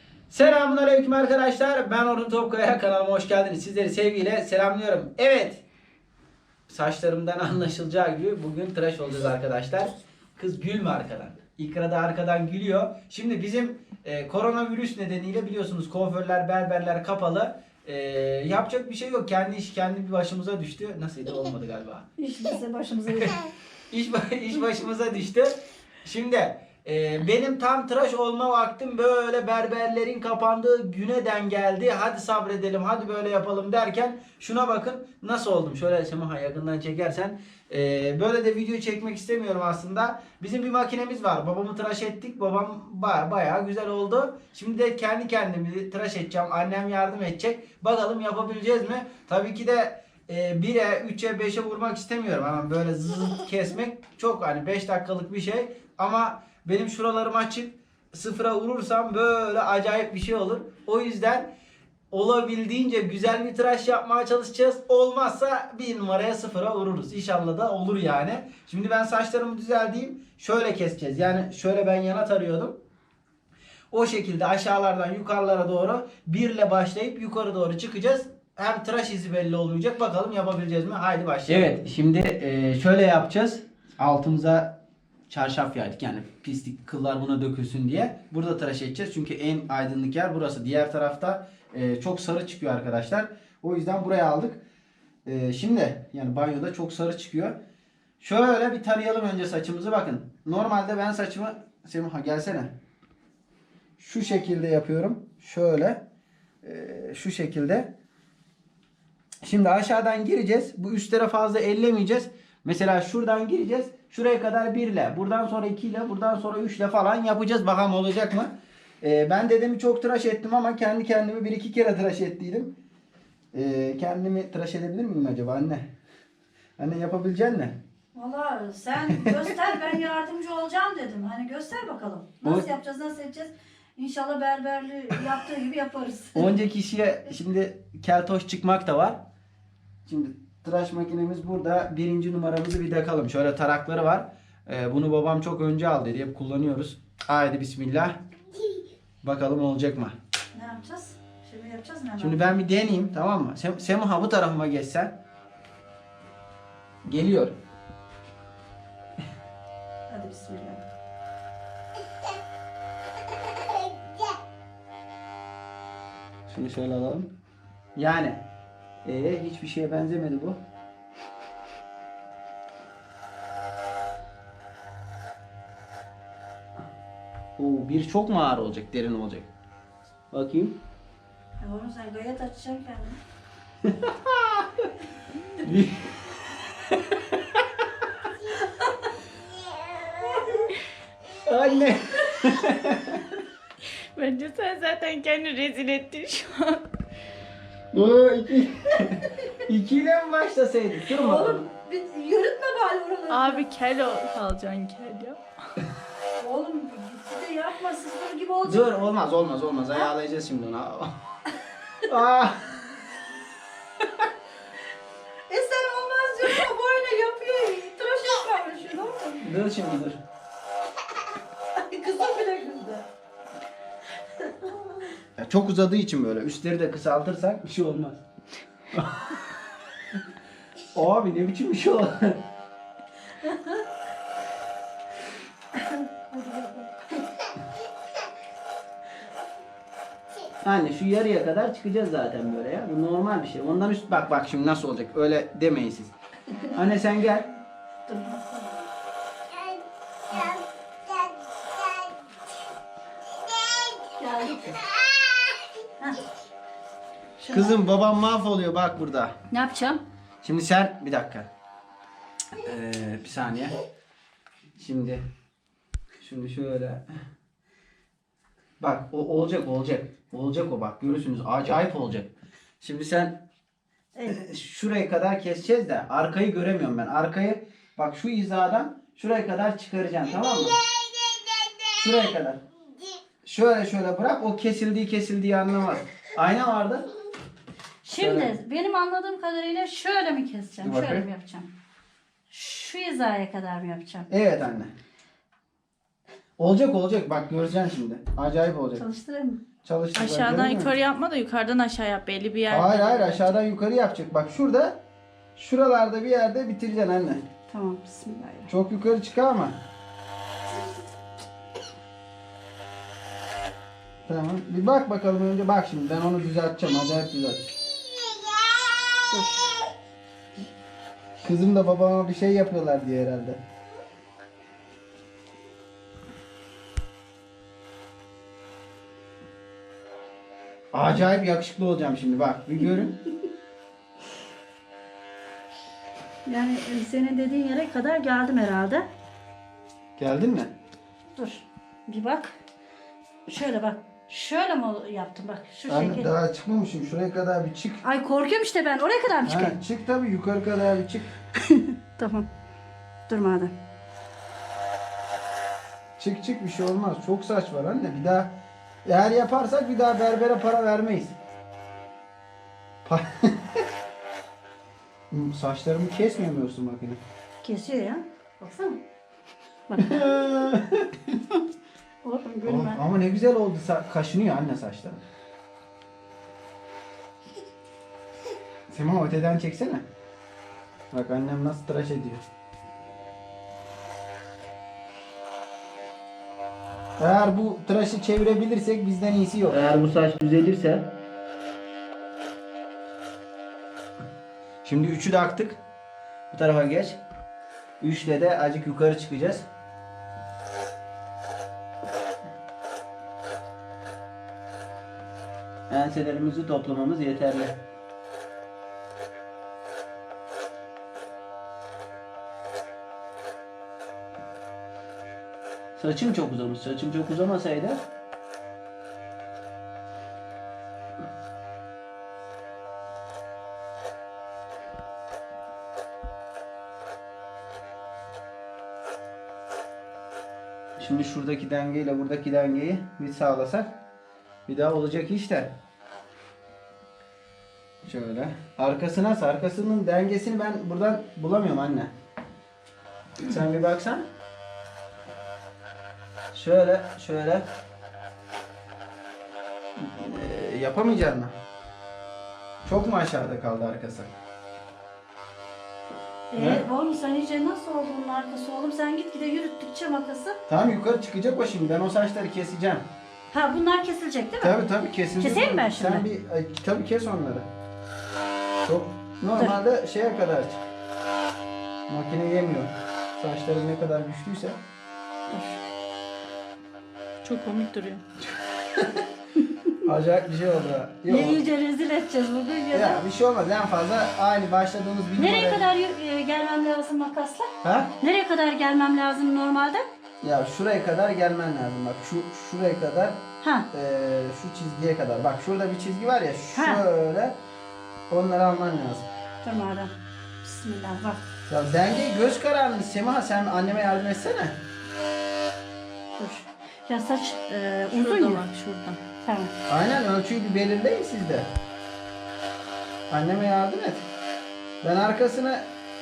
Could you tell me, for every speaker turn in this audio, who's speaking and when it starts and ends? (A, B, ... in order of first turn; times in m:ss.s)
0:00.3-0:05.6 A
0:06.7-0:22.1 A
0:22.2-0:23.5 B
0:23.9-1:01.5 A
1:02.1-1:12.8 A
1:13.9-1:24.8 A
1:25.3-1:34.6 A
1:35.2-1:37.6 A
1:38.2-1:42.8 A
1:44.0-1:46.0 A
1:46.6-1:47.9 A
1:49.4-2:02.7 A
2:03.5-2:05.9 A
2:06.8-2:07.8 A
2:08.1-2:16.5 B
2:16.3-2:19.2 A
2:20.0-2:28.2 A
2:29.2-2:30.2 A
2:30.5-2:32.5 B
2:32.2-2:35.2 A
2:37.0-2:37.6 A
2:40.1-2:40.8 B
2:46.5-2:47.3 A
2:48.0-2:48.4 A
2:49.0-2:50.6 A
2:57.6-2:59.5 A
3:00.3-3:00.8 A
3:01.6-3:03.2 B
3:03.8-3:04.9 A
3:05.6-3:07.6 A
3:10.3-3:10.6 B
3:11.4-3:13.2 A
3:14.1-3:16.8 C
3:17.9-3:21.6 A
3:21.1-3:23.6 B
3:23.3-3:25.4 C
3:26.4-3:28.9 B
3:28.6-3:31.1 A
3:32.0-3:32.8 A
3:35.5-3:39.5 B
3:39.4-3:40.2 A
3:41.8-3:43.0 B
3:44.4-3:44.9 B
3:45.4-3:48.2 A
3:48.9-3:49.3 A
3:50.9-3:52.4 A
3:56.3-3:56.9 B
4:00.6-4:06.1 A
4:06.7-4:07.5 A
4:08.0-4:08.8 B
4:10.3-4:10.6 B
4:14.2-4:14.8 B
4:17.4-4:17.8 B
4:17.5-4:19.4 A
4:19.5-4:20.0 B
4:20.4-4:21.5 A
4:22.6-4:23.8 A
4:24.8-4:25.2 A
4:26.2-4:27.0 A
4:28.8-4:33.4 A
4:34.2-4:40.8 A
4:41.9-4:42.6 A
4:43.4-4:47.1 A
4:48.0-4:51.7 B
4:48.2-4:48.5 A
4:50.8-4:51.2 A
4:52.5-4:54.3 B
4:54.3-4:54.9 A
4:56.6-4:59.0 A
4:58.9-4:59.6 B
4:59.8-5:00.9 A
5:00.1-5:03.5 C
5:02.7-5:05.0 A
5:05.6-5:07.4 A
5:07.7-5:08.7 B
5:08.7-5:09.8 A
5:14.3-5:17.8 A
5:19.3-5:19.7 B
5:21.4-5:23.6 A
5:30.9-5:33.2 A
5:36.4-5:39.0 B
5:40.2-5:40.7 A
5:41.3-5:42.5 B
5:43.5-5:46.3 B
5:45.9-5:48.0 A
5:48.0-5:49.8 B
5:49.4-5:51.3 A
5:52.2-5:52.5 B
5:53.3-5:53.7 B
5:56.2-5:58.5 A
5:59.0-6:01.3 A
6:03.0-6:03.6 A
6:05.3-6:07.2 A
6:07.6-6:09.0 B
6:09.9-6:10.7 B
6:10.0-6:11.1 A
6:12.2-6:13.0 B
6:12.6-6:15.2 A
6:18.9-6:20.0 A
6:21.1-6:22.4 A
6:27.2-6:31.1 A
6:34.8-6:35.8 A
6:36.5-6:37.2 A
6:38.0-6:39.7 A
6:45.9-6:47.8 A
6:56.0-6:58.0 A
7:11.0-7:14.0 A
7:14.7-7:15.8 A
7:18.0-7:22.1 A
7:23.4-7:24.3 A
7:26.5-7:27.6 A
7:30.0-7:31.5 A
7:32.8-7:34.3 A
7:36.5-7:40.6 B
7:36.6-7:36.8 A
7:40.7-7:43.0 A
7:43.5-7:44.8 B
7:44.6-7:47.7 A
7:45.4-7:46.2 B
7:48.8-7:50.8 A
7:52.1-7:54.8 A
7:55.5-7:55.8 B
7:57.4-7:58.2 C
8:00.0-8:01.6 A
8:01.3-8:03.2 B
8:02.9-8:05.8 A
8:05.4-8:07.7 B
8:07.8-8:08.1 A
8:08.2-8:10.0 B
8:10.4-8:17.6 A
8:13.6-8:13.9 B
8:16.7-8:17.0 B
8:18.3-8:19.2 A
8:19.6-8:21.4 B
8:21.7-8:24.8 A
8:26.4-8:28.6 B
8:28.1-8:29.2 C
8:29.4-8:29.7 B
8:29.9-8:31.7 A
8:33.3-8:34.2 A
8:35.0-8:35.8 A